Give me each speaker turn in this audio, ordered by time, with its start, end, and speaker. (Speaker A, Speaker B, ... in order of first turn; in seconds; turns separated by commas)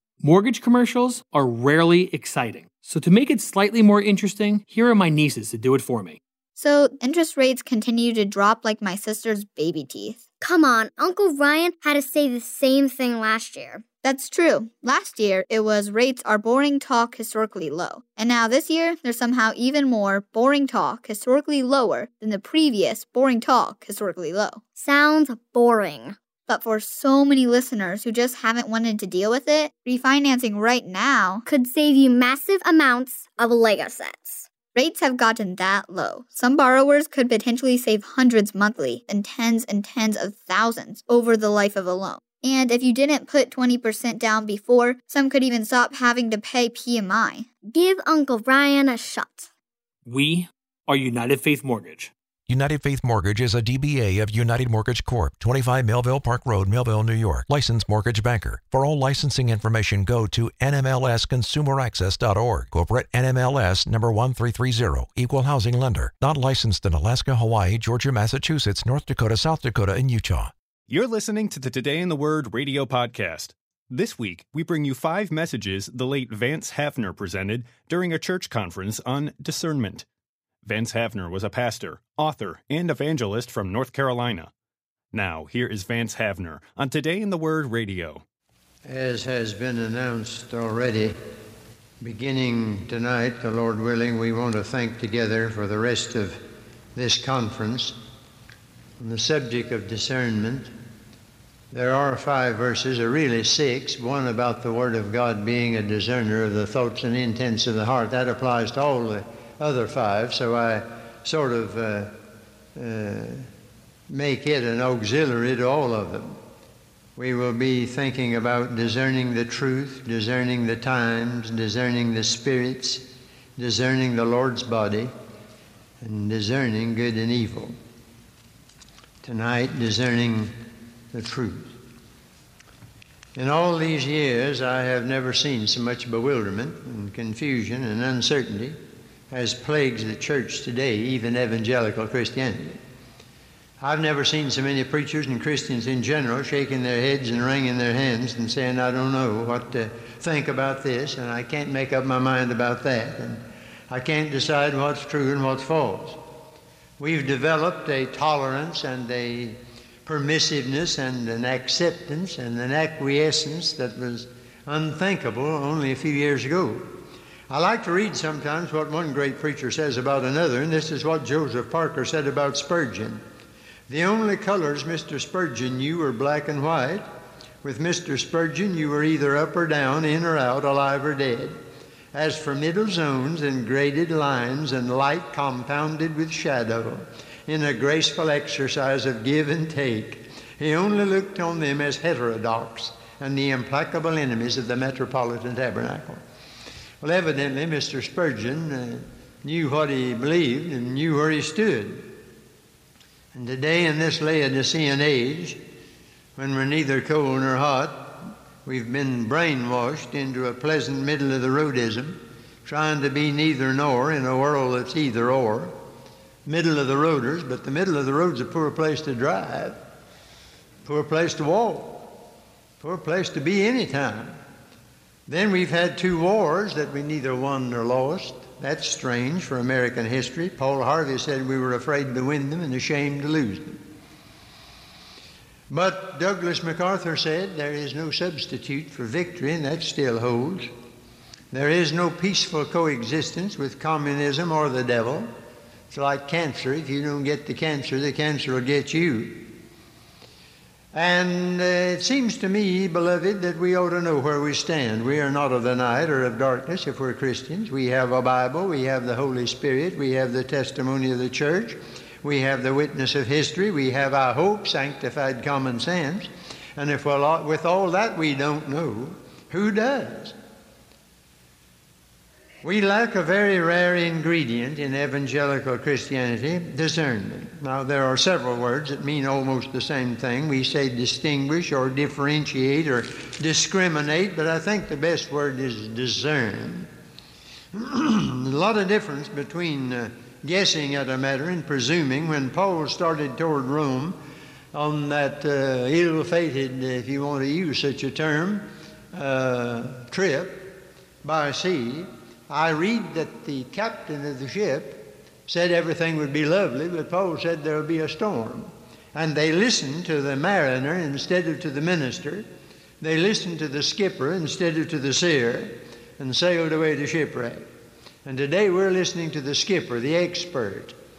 Speaker A: 0.2-6.2, Speaker B: 6.6-10.2, Speaker C: 10.4-13.8, Speaker B: 14.0-24.6, Speaker C: 24.8-26.2, Speaker B: 26.5-31.4, Speaker C: 31.5-34.5, Speaker B: 34.7-47.5, Speaker C: 47.6-49.5, Speaker A: 50.0-52.1, Speaker D: 52.5-70.5, Speaker E: 70.9-80.0, Speaker E: 80.6-84.5, Speaker E: 85.1-88.2, Speaker F: 88.8-91.2, Speaker F: 92.0-96.4, Speaker F: 96.9-98.0, Speaker F: 99.0-100.7, Speaker F: 101.7-112.1, Speaker F: 112.8-113.5, Speaker F: 114.1-116.4, Speaker F: 117.2-125.1, Speaker F: 126.0-127.7, Speaker F: 129.2-130.5, Speaker F: 131.1-131.8, Speaker F: 133.4-138.8, Speaker F: 139.3-142.8, Speaker F: 143.8-156.2, Speaker F: 157.0-173.2, Speaker F: 173.9-177.1, Speaker F: 177.6-181.6, Speaker F: 182.1-196.2, Speaker F: 197.0-202.2, Speaker F: 203.3-205.6, Speaker F: 206.4-215.8, Speaker F: 216.5-219.8, Speaker F: 220.8-222.1, Speaker F: 222.8-224.4, Speaker F: 225.3-233.8, Speaker F: 235.7-240.7, Speaker F: 241.5-245.3, Speaker F: 245.9-249.5, Speaker F: 250.9-270.4, Speaker F: 272.6-286.9, Speaker F: 287.7-294.2, Speaker F: 294.7-312.5, Speaker F: 313.0-317.7, Speaker F: 318.2-320.9